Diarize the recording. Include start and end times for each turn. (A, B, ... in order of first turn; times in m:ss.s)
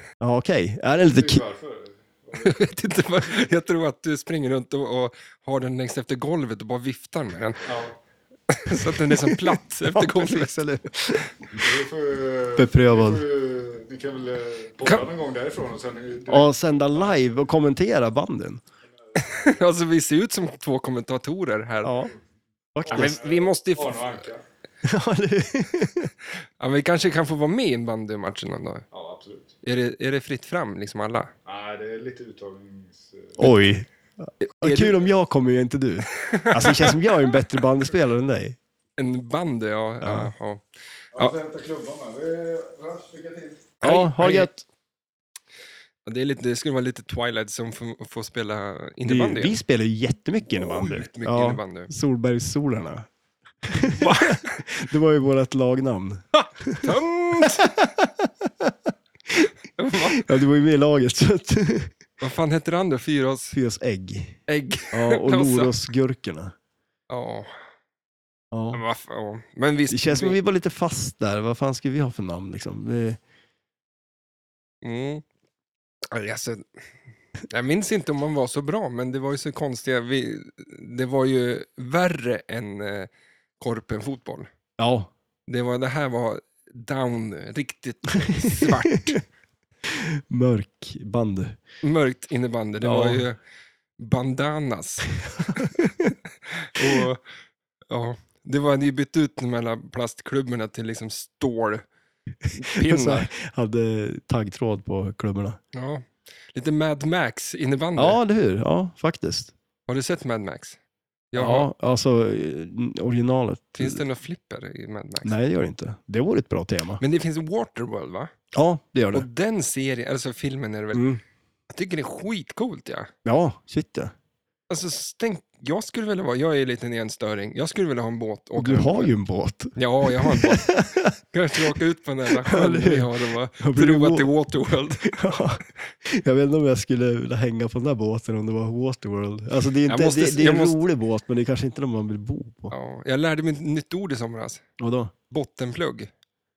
0:00.2-0:01.4 A
0:01.0-0:02.6 B
0:02.3-0:07.7 C
0:07.6-0:07.9 B
0:08.5-0:10.6 C
0:09.1-0:11.2 A
0:11.5-0:17.2 B
0:12.6-0:13.2 A
0:16.3-0:18.6 A
0:19.2-0:22.0 C
0:21.8-0:22.1 A
0:22.7-0:23.2 A
0:22.8-0:24.4 B
0:22.9-0:24.2 C
0:24.8-0:26.1 A
0:26.6-0:28.8 C
0:28.9-0:29.5 B
0:29.6-0:31.3 C
0:31.4-0:33.4 B
0:33.4-0:38.6 A
0:34.4-0:35.1 C
0:36.1-0:36.9 C
0:39.0-0:40.6 C
0:40.0-0:40.3 A
0:41.1-0:43.7 B
0:43.8-0:44.6 A
0:43.8-0:44.5 C
0:46.0-0:49.6 C
0:49.0-0:53.1 A
0:50.5-0:51.9 C
0:53.6-0:58.7 A
0:53.8-0:54.6 C
0:56.3-0:57.7 C
0:59.8-1:00.3 C
1:00.1-1:01.9 A
1:02.2-1:03.6 C
1:03.5-1:04.4 A
1:04.5-1:05.7 C
1:04.9-1:06.5 A
1:07.1-1:07.5 C
1:08.5-1:08.8 A
1:08.7-1:10.4 C
1:09.9-1:13.2 A
1:14.8-1:15.2 C
1:16.1-1:16.6 C
1:17.5-1:24.5 C
1:24.8-1:25.1 A
1:25.5-1:29.2 C
1:28.4-1:29.2 A
1:29.8-1:31.6 A
1:31.8-1:33.4 C
1:32.8-1:33.2 A
1:34.0-1:35.7 C
1:35.4-1:36.1 A
1:36.6-1:37.2 C
1:37.9-1:41.8 C
1:42.4-1:45.6 A
1:42.5-1:43.3 C
1:45.7-1:48.2 C
1:48.0-1:49.5 A
1:49.9-1:50.8 C
1:51.3-1:51.7 C
1:51.3-1:54.0 A
1:53.8-1:55.3 C
1:55.2-1:57.0 A
1:57.0-1:58.3 C
1:58.5-1:59.2 A
1:59.1-2:01.1 C
2:00.9-2:01.2 A
2:01.7-2:03.1 C
2:03.2-2:04.1 A
2:04.7-2:09.1 C
2:08.6-2:11.7 A
2:09.7-2:10.7 C
2:11.3-2:15.2 C
2:12.4-2:14.3 A
2:15.1-2:22.7 A
2:19.9-2:20.8 C
2:22.7-2:24.6 C
2:24.8-2:25.1 A
2:25.3-2:26.1 C